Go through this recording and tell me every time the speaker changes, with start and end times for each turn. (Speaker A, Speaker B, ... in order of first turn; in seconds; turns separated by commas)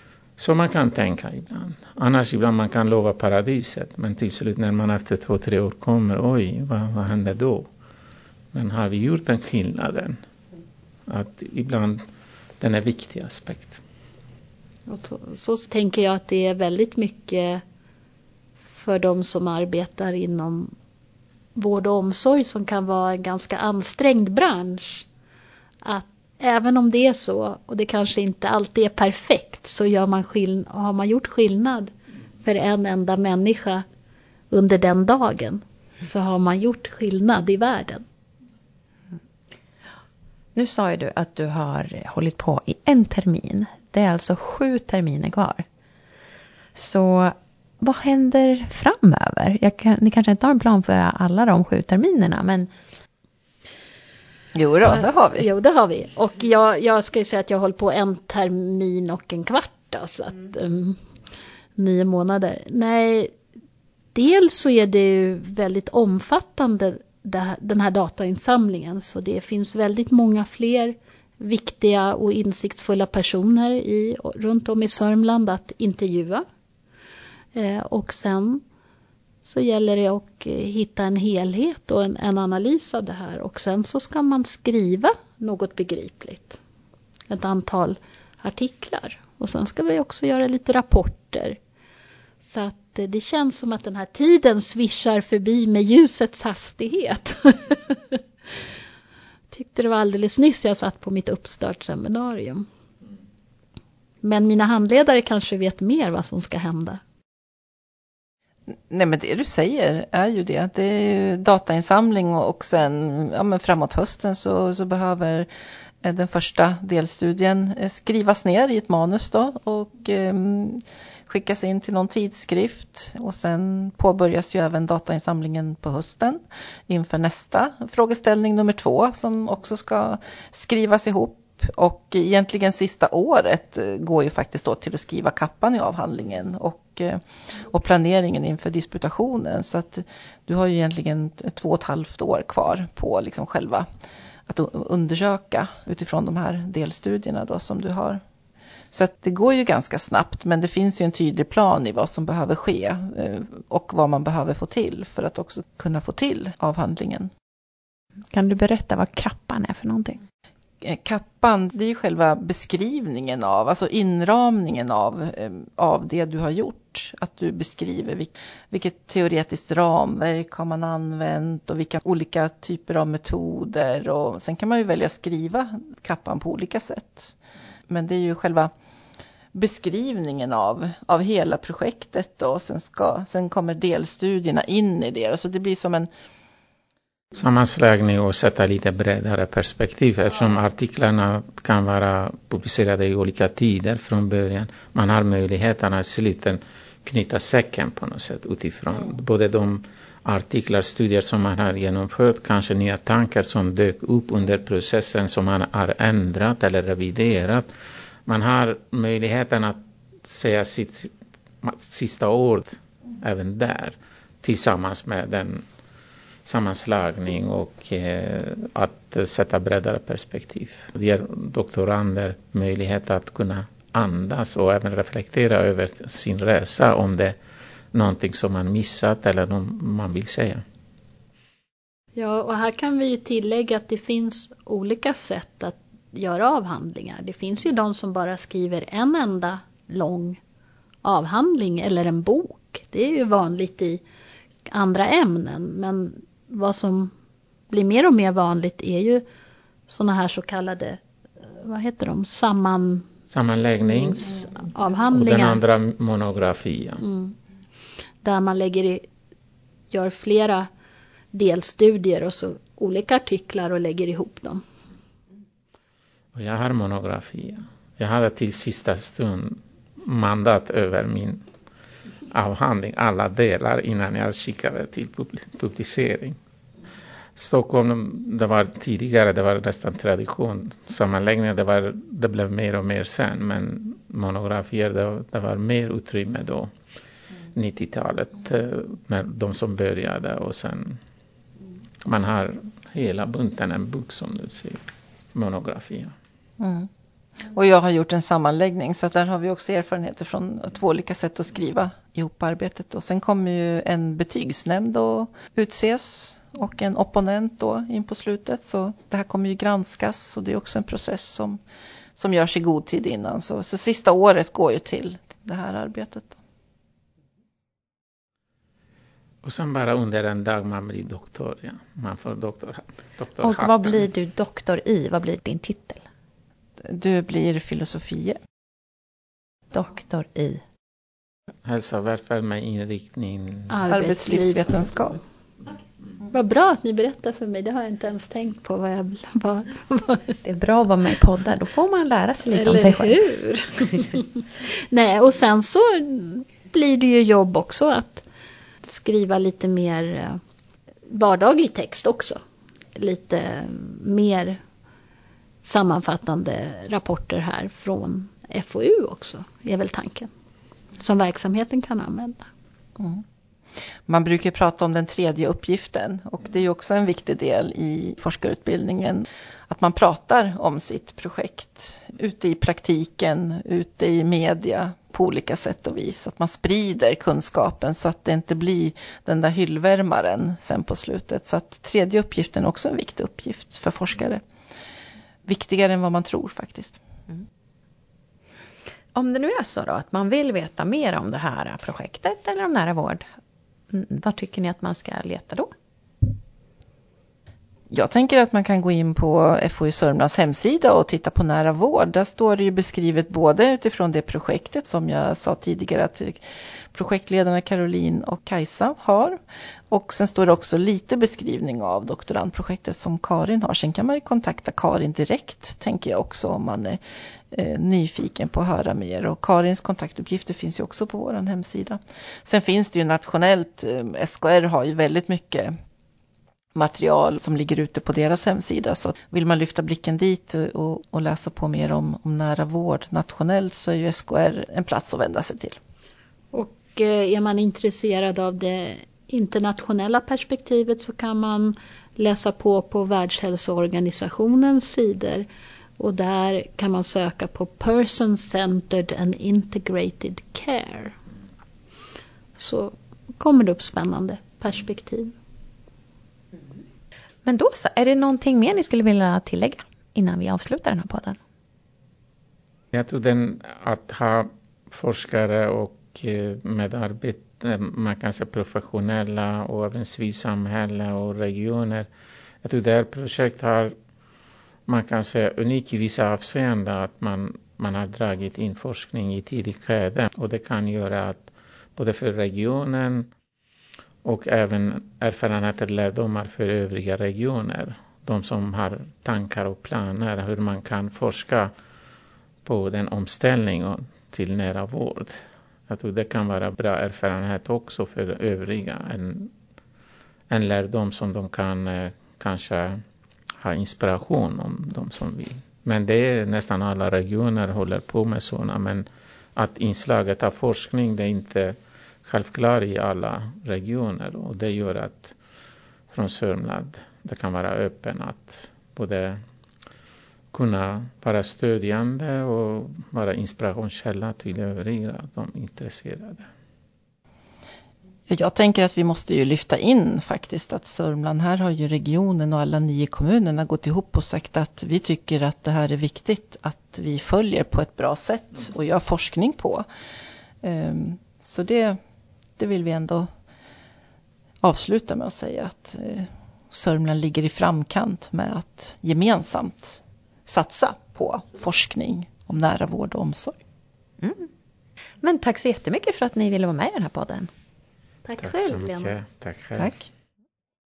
Speaker A: 0.4-7.7, Speaker A: 8.5-10.2, Speaker A: 11.1-12.0, Speaker A: 12.6-13.8, Speaker B: 14.9-17.6, Speaker B: 18.7-20.7, Speaker B: 21.6-25.1, Speaker B: 25.8-33.9, Speaker B: 34.5-38.1, Speaker C: 40.5-45.6, Speaker C: 46.8-52.7, Speaker D: 54.5-55.5, Speaker B: 54.8-61.0, Speaker B: 61.8-63.3, Speaker B: 64.2-76.5, Speaker B: 77.5-78.6, Speaker B: 79.4-86.6, Speaker B: 87.3-91.6, Speaker B: 92.4-98.2, Speaker B: 99.5-102.7, Speaker B: 104.2-107.0, Speaker D: 108.9-115.5, Speaker D: 116.0-143.9, Speaker D: 144.5-148.2, Speaker D: 148.9-157.3, Speaker C: 158.3-160.2, Speaker D: 160.8-177.3, Speaker D: 177.9-178.7, Speaker D: 179.5-186.1, Speaker A: 187.3-207.7, Speaker A: 208.3-215.7, Speaker A: 216.4-227.4, Speaker A: 227.9-230.6, Speaker B: 232.2-240.4, Speaker B: 241.0-244.0, Speaker B: 244.7-247.1, Speaker B: 247.7-249.2, Speaker B: 249.9-251.0, Speaker B: 251.6-253.1, Speaker A: 253.3-254.4, Speaker B: 253.9-255.6, Speaker A: 255.1-257.0, Speaker B: 257.0-257.4, Speaker B: 258.2-259.1, Speaker B: 259.9-260.7, Speaker B: 261.3-264.6, Speaker A: 266.3-271.4, Speaker A: 272.3-276.4, Speaker A: 277.4-286.7, Speaker A: 287.5-291.0, Speaker A: 292.0-294.8, Speaker A: 295.3-296.1, Speaker D: 296.6-296.9, Speaker D: 297.5-311.6, Speaker D: 312.2-316.4, Speaker A: 319.4-324.1, Speaker C: 323.4-326.0, Speaker D: 326.8-328.4, Speaker C: 329.7-330.6, Speaker A: 331.6-333.7, Speaker B: 333.7-334.8, Speaker D: 333.9-335.2, Speaker B: 336.3-340.4, Speaker C: 340.4-343.2, Speaker B: 342.5-348.2, Speaker B: 348.8-350.4, Speaker B: 351.1-352.4, Speaker B: 352.9-354.6, Speaker B: 355.6-360.3, Speaker B: 361.0-362.4, Speaker D: 364.1-384.4, Speaker D: 385.5-387.0, Speaker C: 389.1-393.3, Speaker C: 393.9-395.7, Speaker D: 397.9-406.4, Speaker D: 406.9-409.4, Speaker D: 409.9-417.0, Speaker D: 417.5-425.7, Speaker D: 426.8-435.8, Speaker B: 436.5-445.5, Speaker B: 446.0-451.2, Speaker B: 452.6-455.3, Speaker C: 457.4-461.4, Speaker A: 462.9-472.1, Speaker A: 472.6-473.9, Speaker A: 474.9-483.3, Speaker A: 484.2-491.7, Speaker A: 492.6-495.4, Speaker A: 495.9-499.5, Speaker A: 500.5-503.0, Speaker A: 503.6-515.3, Speaker A: 516.1-519.4, Speaker A: 520.5-526.5, Speaker D: 528.3-539.9, Speaker D: 540.6-542.0, Speaker D: 542.6-543.3, Speaker D: 544.6-553.6, Speaker C: 554.2-554.5, Speaker C: 555.2-557.5, Speaker B: 558.2-559.1, Speaker A: 558.4-560.0